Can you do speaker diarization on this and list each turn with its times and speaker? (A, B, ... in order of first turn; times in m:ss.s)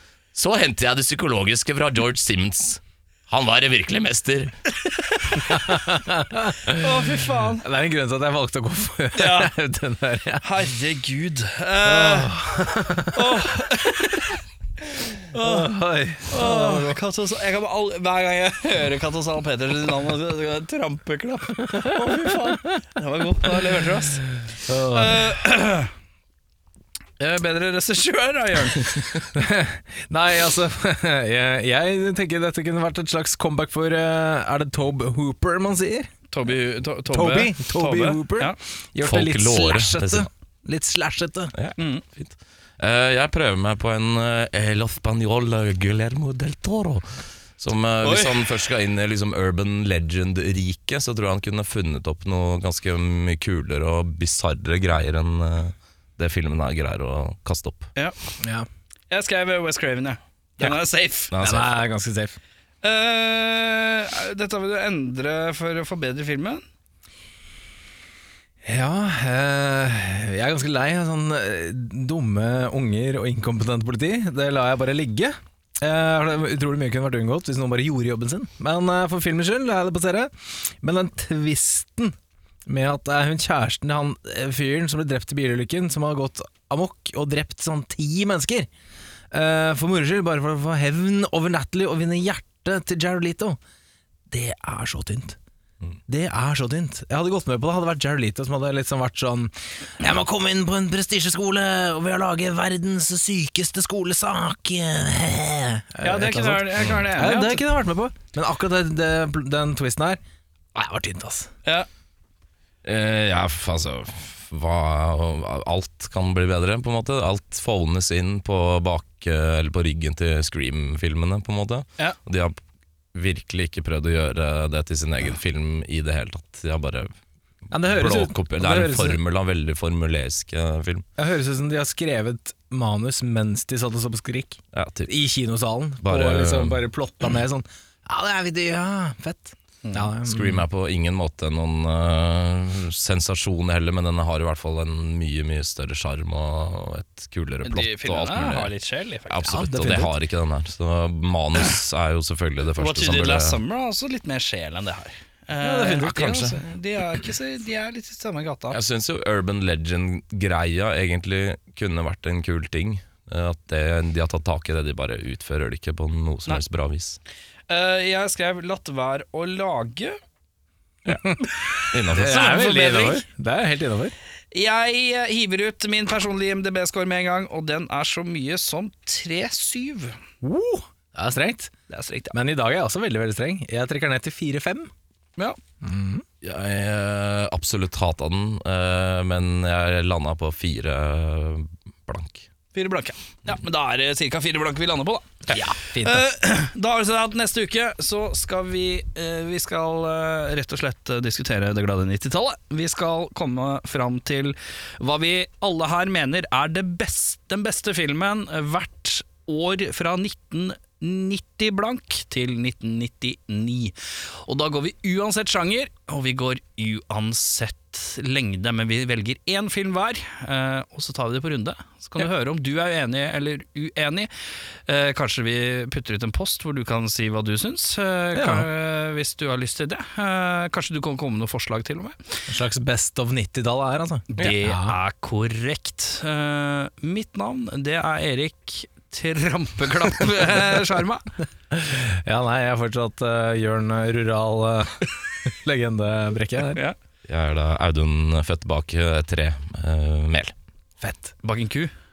0:00.3-0:04.5 A
0:05.3-0:05.5 B
0:05.4-0:10.4 C
0:06.7-0:07.6 B
0:09.2-0:09.5 B
0:10.4-0:14.4 B
0:11.8-0:13.5 C
0:15.2-0:15.7 B
0:15.4-0:17.0 C
0:16.3-0:24.3 B
0:21.7-0:22.6 C
0:24.7-0:25.4 C
0:24.9-0:25.9 B
0:27.2-0:29.3 B
0:29.3-0:36.1 C
0:36.3-0:38.6 B
0:37.1-0:41.5 C
0:39.0-0:40.3 A
0:41.5-0:57.9 A
0:41.8-0:42.0 B
0:48.0-0:48.5 B
0:58.4-0:58.7 C
0:59.1-1:01.3 B
1:01.3-1:01.7 A
1:01.4-1:02.4 C
1:02.8-1:06.6 B
1:08.6-1:22.2 C
1:22.7-1:28.7 C
1:29.3-1:33.6 C
1:34.3-1:35.4 C
1:36.1-1:50.2 C
1:46.0-1:47.6 B
1:50.8-1:51.5 C
1:52.8-2:02.6 A
2:03.1-2:07.1 A
2:07.7-2:09.2 C
2:07.7-2:11.1 A
2:11.2-2:20.6 C
2:14.7-2:15.1 A
2:16.0-2:16.8 A
2:20.2-2:28.7 A
2:27.6-2:29.6 B
2:29.3-2:33.6 A
2:29.5-2:30.1 C
2:32.8-2:38.8 B
2:35.6-2:36.3 C
2:36.0-2:36.6 A
2:38.7-2:47.2 A
2:47.7-2:50.2 B
2:51.1-2:51.4 A
2:51.9-2:52.5 A
2:52.1-2:54.2 C
2:52.1-2:53.2 B
2:54.5-3:00.2 B
3:00.4-3:01.7 C
3:01.9-3:02.3 B
3:02.3-3:04.9 C
3:05.8-3:06.2 C
3:06.4-3:12.5 A
3:12.7-3:44.3 B
3:15.5-3:16.3 C
3:44.9-3:52.3 B
3:48.4-3:48.7 C
3:52.5-3:55.0 C
3:54.3-4:01.2 B
4:01.7-4:06.8 C
4:07.3-4:10.5 A
4:11.0-4:11.3 C
4:11.4-4:11.9 B